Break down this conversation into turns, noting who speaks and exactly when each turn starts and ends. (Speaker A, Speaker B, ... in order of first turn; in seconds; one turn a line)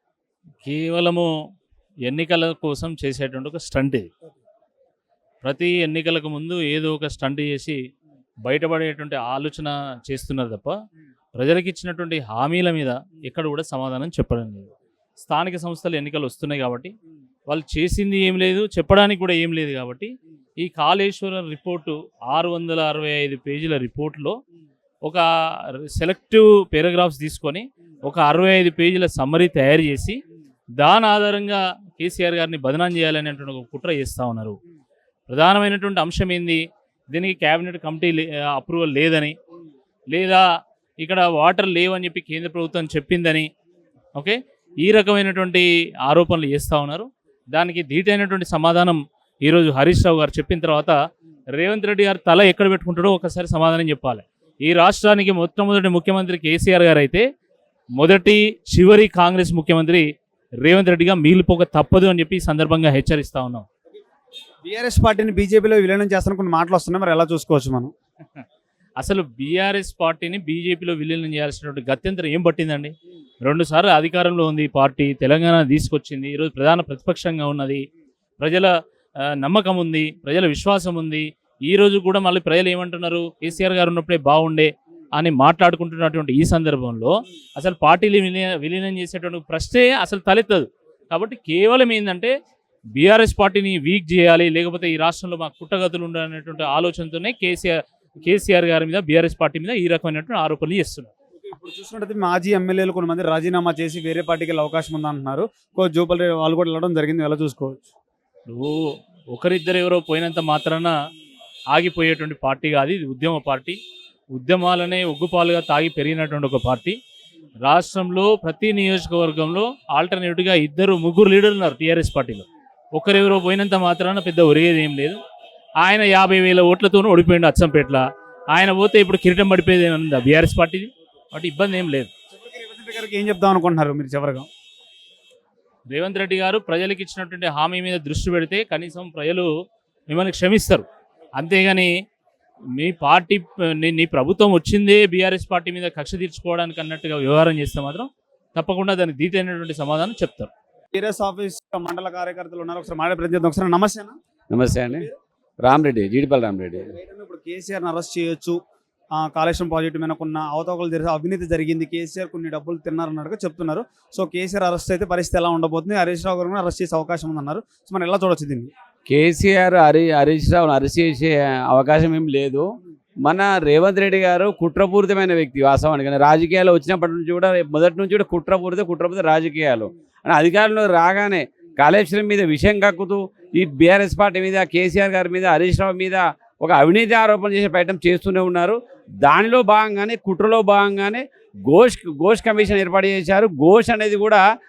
Speaker A: 0.6-1.3
Speaker A: 2.0-4.1
Speaker A: 5.4-7.8
Speaker A: 8.4-10.8
Speaker A: 11.3-16.9
Speaker A: 17.5-24.4
Speaker A: 25.0-30.2
Speaker A: 30.8-34.6
Speaker A: 35.3-39.4
Speaker A: 40.1-40.4
Speaker A: 41.0-43.5
Speaker A: 44.1-51.0
Speaker A: 51.5-57.2
Speaker A: 58.0-60.0
Speaker A: 60.6-63.6
Speaker B: 64.7-67.9
Speaker A: 69.0-77.8
Speaker A: 78.4-78.7
Speaker A: 79.4-92.3
Speaker A: 93.0-101.1
Speaker B: 101.4-107.9
Speaker A: 108.5-108.8
Speaker A: 109.3-110.9
Speaker A: 111.7-113.8
Speaker A: 114.3-117.0
Speaker A: 117.6-125.2
Speaker A: 125.8-132.1
Speaker B: 132.3-134.5
Speaker A: 135.9-139.5
Speaker A: 140.1-140.8
Speaker A: 141.4-141.9
Speaker A: 142.8-150.5
Speaker B: 150.9-154.2
Speaker C: 154.5-155.1
Speaker C: 155.6-156.9
Speaker B: 156.8-158.6
Speaker B: 159.2-168.7
Speaker C: 169.1-172.7
Speaker C: 173.2-194.4